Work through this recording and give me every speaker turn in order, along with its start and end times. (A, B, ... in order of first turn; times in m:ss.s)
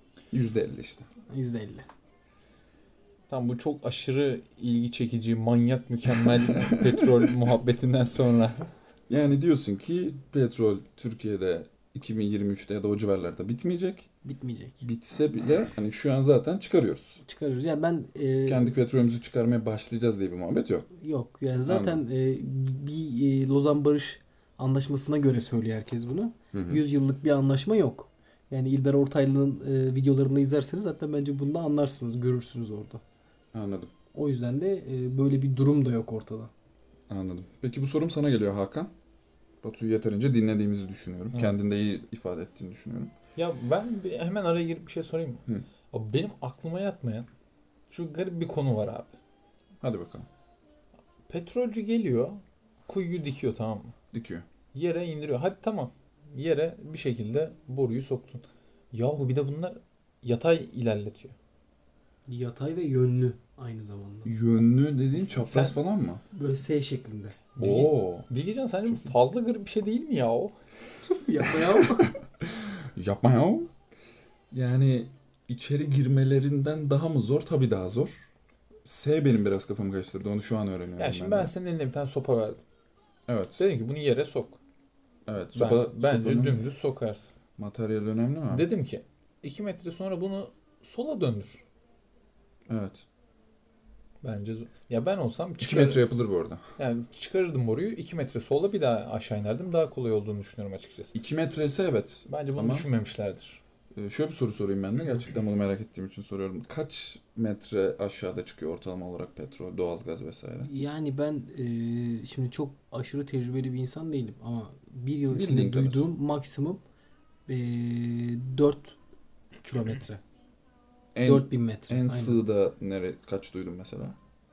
0:00.3-0:01.1 A
0:01.3-0:01.9 B
0:03.3-0:08.7 C
0:06.6-0:07.0 A
0:09.1-0:14.1 A
0:14.2-0:14.8 B
0:14.8-0:17.2 A
0:17.2-0:18.7 B
0:18.5-0:20.9 A
0:21.0-0:33.0 B
0:21.7-0:22.0 A
0:26.5-0:26.8 A
0:33.5-0:33.9 A
0:34.1-0:36.5 B
0:37.1-0:38.9 A
0:39.6-0:43.1 A
0:43.4-0:47.3 C
0:47.9-0:49.2 C
0:49.8-0:50.3 A
0:51.3-0:53.9 C
0:54.1-0:54.4 A
0:54.7-1:01.4 C
1:02.3-1:04.4 B
1:04.2-1:06.2 A
1:05.3-1:05.8 C
1:06.3-1:07.4 B
1:07.6-1:10.5 C
1:07.6-1:08.3 A
1:11.1-1:12.1 B
1:11.5-1:13.7 A
1:14.5-1:18.1 A
1:18.8-1:21.5 A
1:21.0-1:22.6 C
1:23.3-1:23.6 A
1:23.6-1:24.6 C
1:25.3-1:26.6 A
1:25.6-1:27.4 C
1:27.6-1:28.7 A
1:28.5-1:31.6 C
1:32.7-1:33.0 A
1:34.2-1:36.1 C
1:35.6-1:36.6 A
1:36.8-1:41.2 C
1:41.1-1:42.9 A
1:42.3-1:43.6 C
1:43.9-1:50.7 A
1:50.6-1:56.8 B
1:55.3-1:56.1 A
1:57.5-1:59.0 B
1:59.6-2:00.2 B
2:01.2-2:04.2 A
2:01.2-2:02.4 B